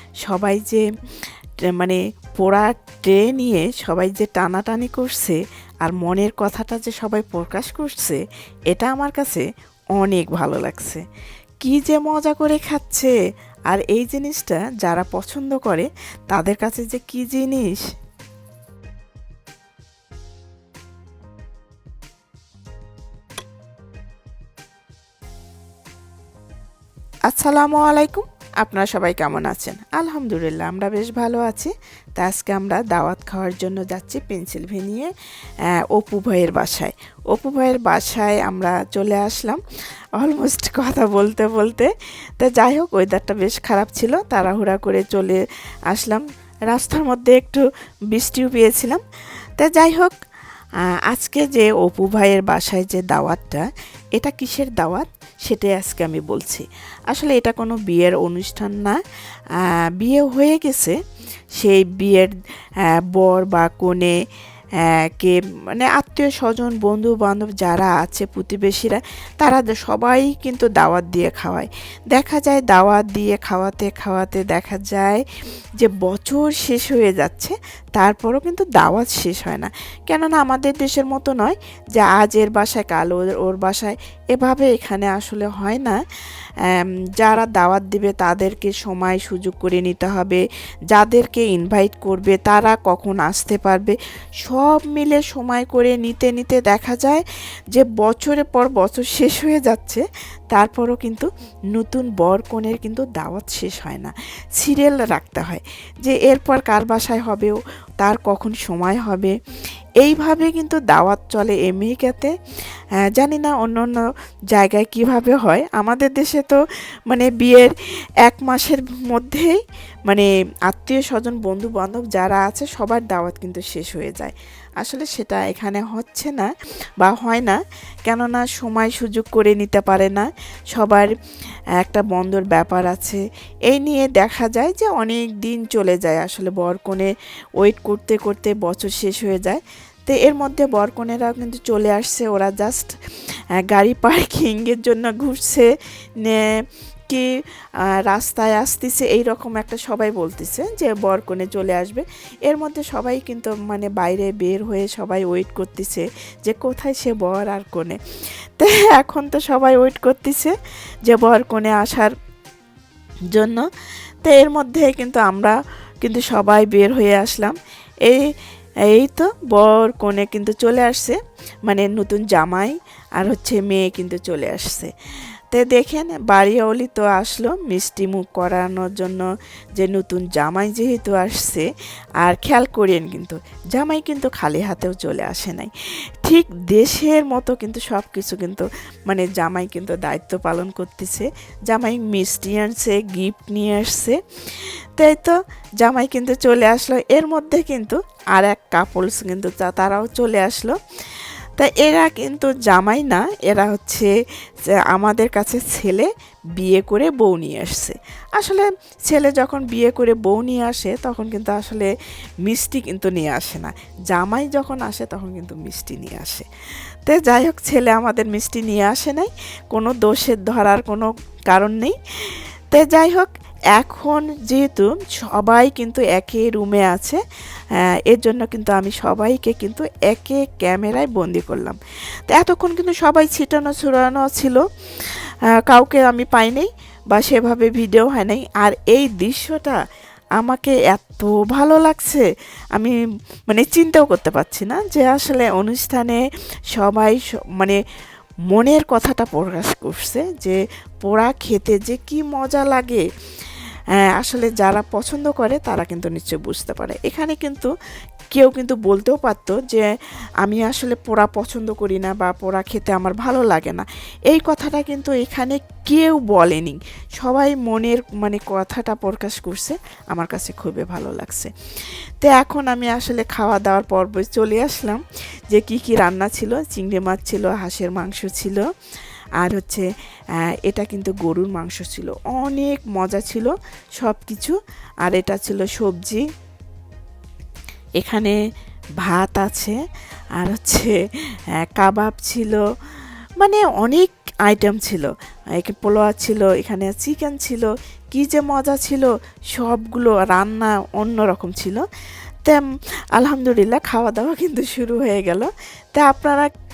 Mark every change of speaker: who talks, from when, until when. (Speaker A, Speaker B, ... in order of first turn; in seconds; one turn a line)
Speaker A: 0.2-0.8
Speaker A: 1.7-9.4
Speaker A: 10.0-11.0
Speaker A: 11.6-13.1
Speaker A: 13.7-17.9
Speaker A: 27.3-35.1
Speaker A: 35.7-39.6
Speaker A: 40.1-47.6
Speaker A: 48.1-49.0
Speaker A: 49.6-50.1
Speaker A: 51.1-59.0
Speaker A: 59.6-61.0
Speaker A: 61.6-62.3
Speaker A: 62.8-64.2
Speaker A: 64.8-75.2
Speaker A: 75.8-86.0
Speaker A: 86.6-109.3
Speaker A: 110.0-112.3
Speaker A: 113.0-116.6
Speaker A: 117.1-117.7
Speaker A: 118.2-126.5
Speaker A: 127.0-131.1
Speaker A: 131.8-142.9
Speaker A: 143.6-145.7
Speaker A: 146.2-146.5
Speaker A: 148.0-162.1
Speaker A: 163.3-163.7
Speaker A: 164.2-168.2
Speaker A: 168.9-174.9
Speaker A: 175.5-181.7
Speaker A: 182.2-185.7
Speaker A: 186.2-204.1
Speaker A: 204.7-211.9
Speaker A: 212.4-216.5
Speaker A: 217.0-227.2
Speaker A: 227.8-231.8
Speaker A: 232.3-239.8
Speaker A: 240.4-242.9
Speaker A: 243.5-246.2
Speaker A: 246.7-247.8
Speaker A: 248.5-253.0
Speaker A: 254.0-257.7
Speaker A: 258.3-259.9
Speaker A: 260.4-271.5
Speaker A: 272.2-275.0
Speaker A: 275.5-278.6
Speaker A: 279.4-279.9
Speaker A: 280.4-286.2
Speaker A: 288.0-288.4
Speaker A: 289.0-289.8
Speaker A: 290.4-290.9
Speaker A: 291.6-292.6
Speaker A: 293.4-301.8
Speaker A: 303.2-306.5